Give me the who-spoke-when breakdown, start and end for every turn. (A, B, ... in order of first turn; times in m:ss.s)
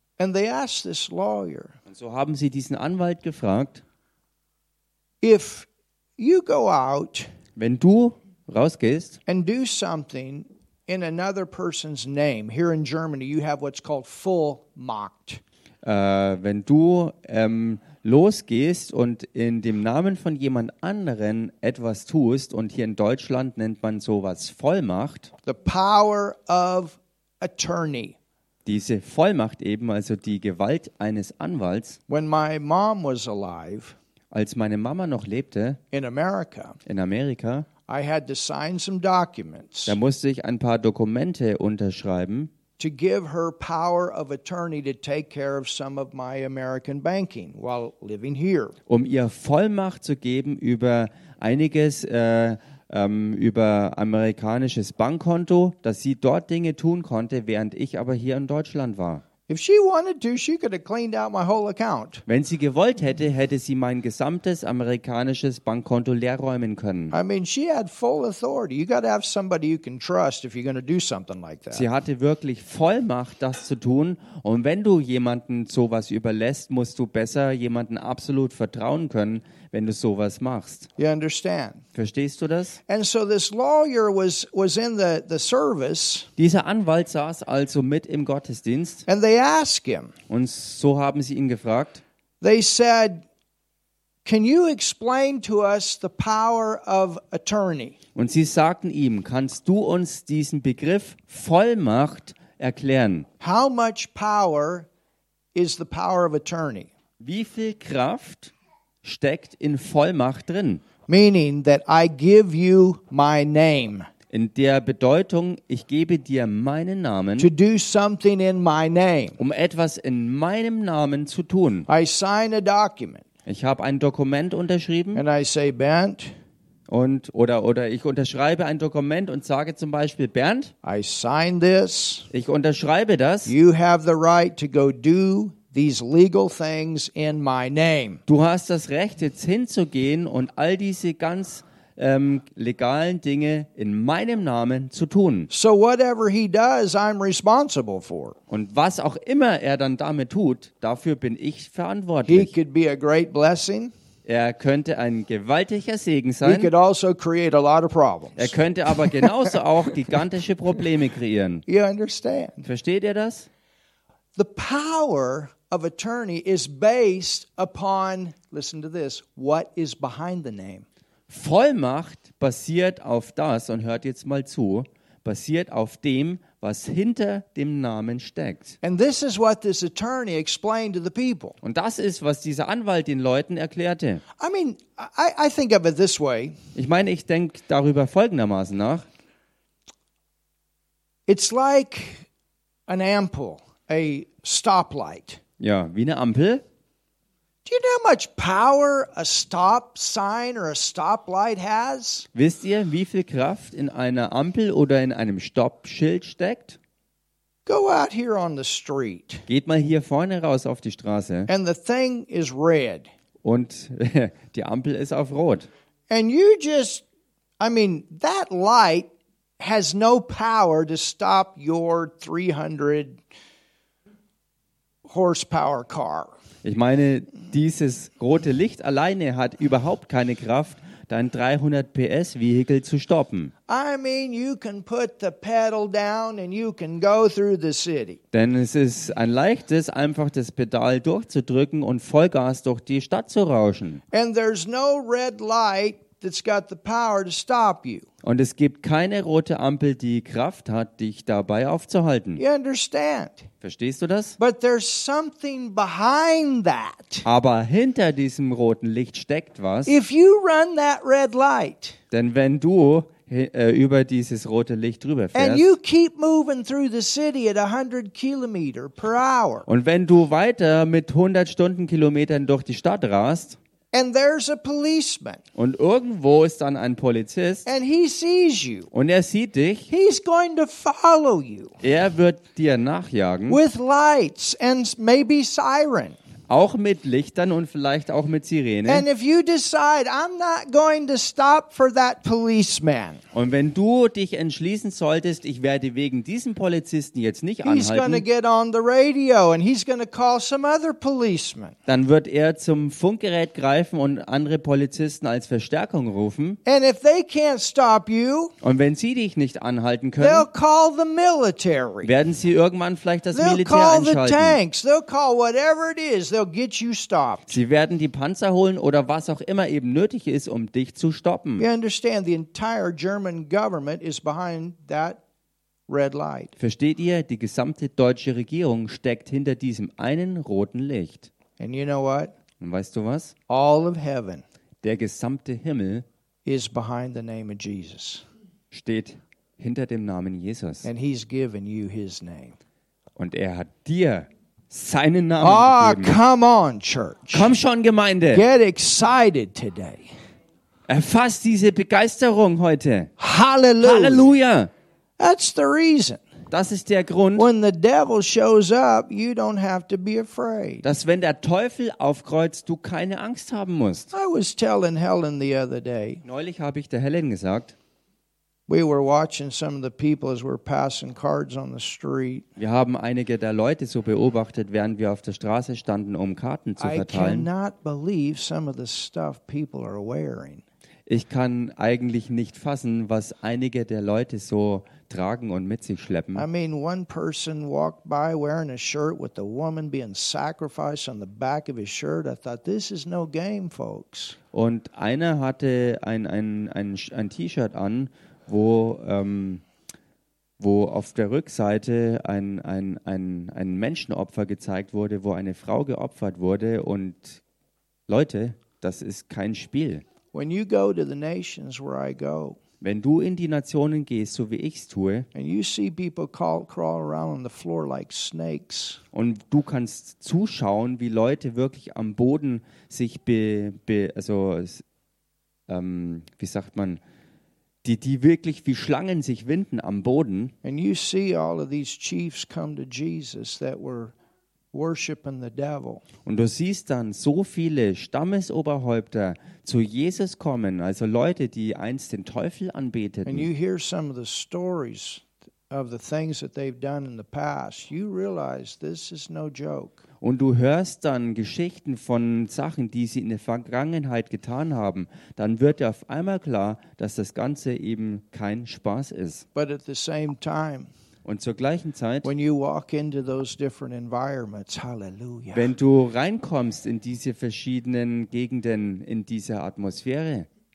0:00.2-0:01.8 A
0:01.9-0:03.8 B
0:05.2-0:05.7 A
0:06.2-0:07.3 A
0:07.6-0:09.2 B
0:09.3-0:15.4 A
0:15.8-0:25.3 B
0:25.5-0:28.2 A
0:28.6-0:32.0 B
0:32.1-0:34.0 A
0:34.3-0:35.8 B
0:35.9-0:36.8 A
0:36.9-0:37.7 B
0:37.9-0:40.0 A
0:39.9-0:42.5 B
0:42.8-0:48.8 A
0:48.9-0:59.2 B
0:59.5-1:02.2 A
1:02.3-1:07.2 B
1:07.1-1:11.8 A
1:11.7-1:20.9 B
1:21.0-1:21.8 A
1:22.0-1:22.8 B
1:22.9-1:26.3 A
1:26.4-1:29.0 B
1:29.1-1:30.1 A
1:30.3-1:32.0 B
1:32.4-1:33.3 A
1:34.2-1:38.0 A
1:38.2-1:43.3 B
1:43.4-1:44.9 A
1:45.6-1:46.9 A
1:47.2-1:48.5 B
1:49.0-1:50.8 B
1:51.1-1:54.1 A
1:54.3-1:57.5 B
1:57.4-1:59.4 A
1:59.4-2:01.9 B
2:01.9-2:03.2 A
2:03.5-2:05.2 B
2:05.1-2:06.3 A
2:06.9-2:10.7 B
2:10.8-2:12.3 A
2:12.3-2:13.6 B
2:13.5-2:18.2 A
2:18.3-2:25.5 B
2:25.5-2:28.4 A
2:28.5-2:32.5 B
2:32.3-2:33.9 A
2:34.2-2:36.7 B
2:36.4-2:39.5 A
2:38.4-2:41.6 B
2:41.7-2:42.7 A
2:42.6-2:43.5 B
2:44.4-2:50.9 A
2:51.3-2:58.8 B
2:58.8-3:01.6 A
3:01.6-3:04.2 B
3:04.4-3:06.6 A
3:06.8-3:09.1 B
3:11.3-3:12.3 A
3:12.9-3:15.4 A
3:15.6-3:16.6 B
3:17.7-3:22.3 A
3:22.4-3:26.8 B
3:27.7-3:29.4 A
3:29.5-3:31.5 B
3:31.5-3:33.1 A
3:33.4-3:35.7 B
3:36.1-3:37.0 A
3:37.6-3:43.2 A
3:45.1-3:46.3 A
3:46.6-3:53.5 B
3:53.7-3:58.2 A
3:58.3-4:04.0 B
4:04.1-4:08.1 A
4:08.2-4:12.4 B
4:12.4-4:13.5 A
4:13.6-4:14.4 B
4:14.4-4:17.3 A
4:17.2-4:20.0 B
4:19.9-4:22.0 A
4:22.1-4:25.8 B
4:25.3-4:29.7 A
4:29.7-4:33.6 B
4:33.9-4:35.4 A
4:35.6-4:37.7 B
4:37.7-4:38.9 A
4:38.9-4:39.9 B
4:39.9-4:41.8 A
4:41.8-4:43.6 B
4:43.5-4:46.2 A
4:46.5-4:49.1 B
4:48.9-4:53.2 A
4:53.3-4:58.2 B
4:57.6-5:01.8 A
5:01.9-5:06.6 B
5:06.6-5:08.5 A
5:08.6-5:10.5 B
5:10.2-5:12.1 A
5:12.0-5:14.6 B
5:13.3-5:17.6 A
5:17.5-5:21.6 B
5:21.6-5:25.2 A
5:25.9-5:26.5 A
5:26.6-5:31.3 B
5:31.6-5:32.3 A
5:32.6-5:33.4 B
5:33.5-5:34.4 A
5:34.8-5:36.0 B
5:36.5-5:38.2 A
5:38.7-5:40.9 B
5:40.8-5:42.6 A
5:43.2-5:46.2 B
5:45.4-5:47.5 A
5:47.3-5:48.4 B
5:48.3-5:50.1 A
5:50.9-5:53.1 B
5:53.2-5:54.3 A
5:53.8-5:54.7 B
5:55.2-5:56.2 A
5:56.5-5:57.5 B
5:57.4-6:00.8 A
6:00.8-6:04.1 B
6:04.1-6:06.2 A
6:06.2-6:07.8 B
6:08.7-6:12.5 A
6:12.6-6:17.5 B
6:16.8-6:20.6 A
6:21.1-6:26.5 B
6:26.4-6:34.4 A
6:34.5-6:39.6 B
6:40.6-6:47.4 B
6:48.1-6:50.0 B
6:50.3-6:52.6 A
6:52.8-6:55.3 B
6:55.3-6:59.0 A
6:59.1-7:04.8 B
7:05.7-7:07.0 B
7:07.8-7:10.5 B
7:10.6-7:14.1 A
7:14.7-7:16.0 A
7:16.3-7:23.5 B
7:23.3-7:30.0 A
7:30.2-7:39.4 B
7:39.6-7:40.9 A
7:41.2-7:42.3 B
7:42.2-7:45.7 A
7:45.5-7:50.5 B